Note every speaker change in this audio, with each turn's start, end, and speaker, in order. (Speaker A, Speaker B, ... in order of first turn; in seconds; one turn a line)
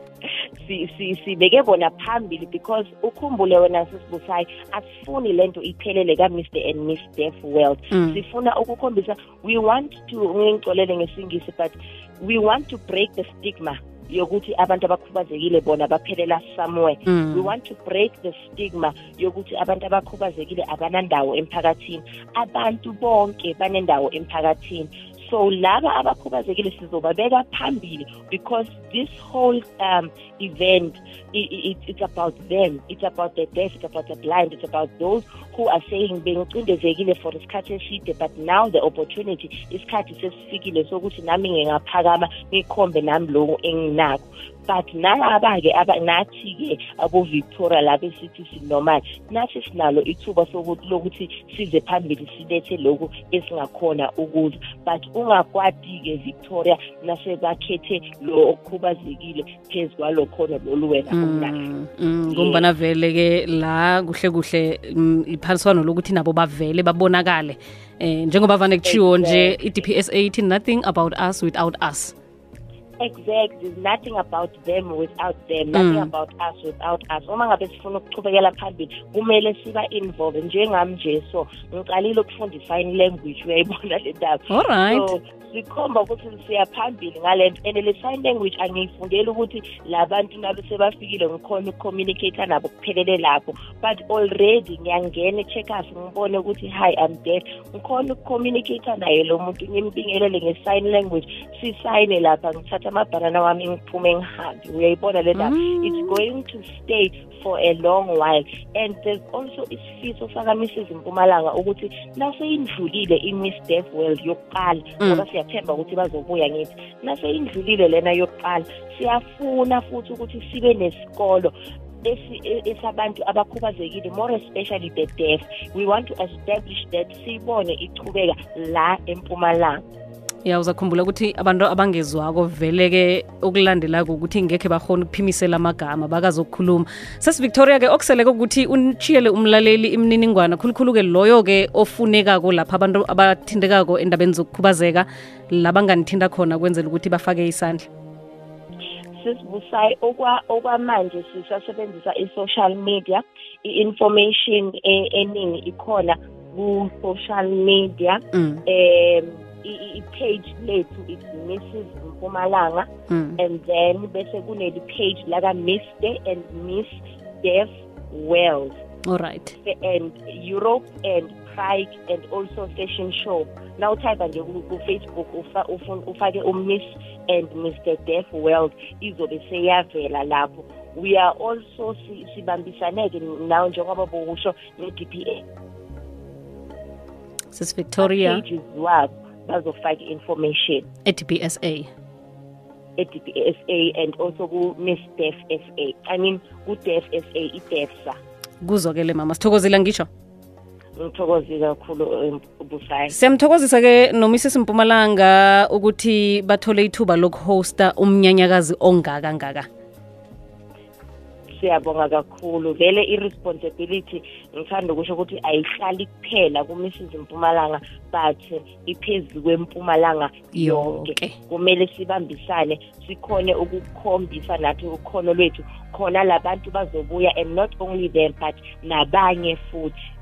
Speaker A: 0.6-61.6
Speaker B: 7.9-8.2
Speaker B: 17.1-17.5
Speaker B: 61.1-72.1
Speaker A: 62.3-62.6
Speaker A: 68.8-69.6
Speaker A: 73.0-121.5
Speaker B: 75.7-76.1
Speaker B: 84.5-85.1
Speaker B: 105.3-106.2
Speaker A: 122.0-129.8
Speaker B: 130.4-147.9
Speaker A: 149.1-162.9
Speaker B: 158.3-158.6
Speaker B: 163.1-163.4
Speaker A: 163.4-168.8
Speaker B: 169.1-169.5
Speaker A: 169.6-185.4
Speaker B: 187.5-188.4
Speaker A: 188.0-190.9
Speaker B: 191.1-191.9
Speaker A: 193.0-198.2
Speaker B: 198.6-200.1
Speaker A: 201.0-203.2
Speaker B: 203.1-209.7
Speaker A: 211.6-229.9
Speaker B: 220.5-221.3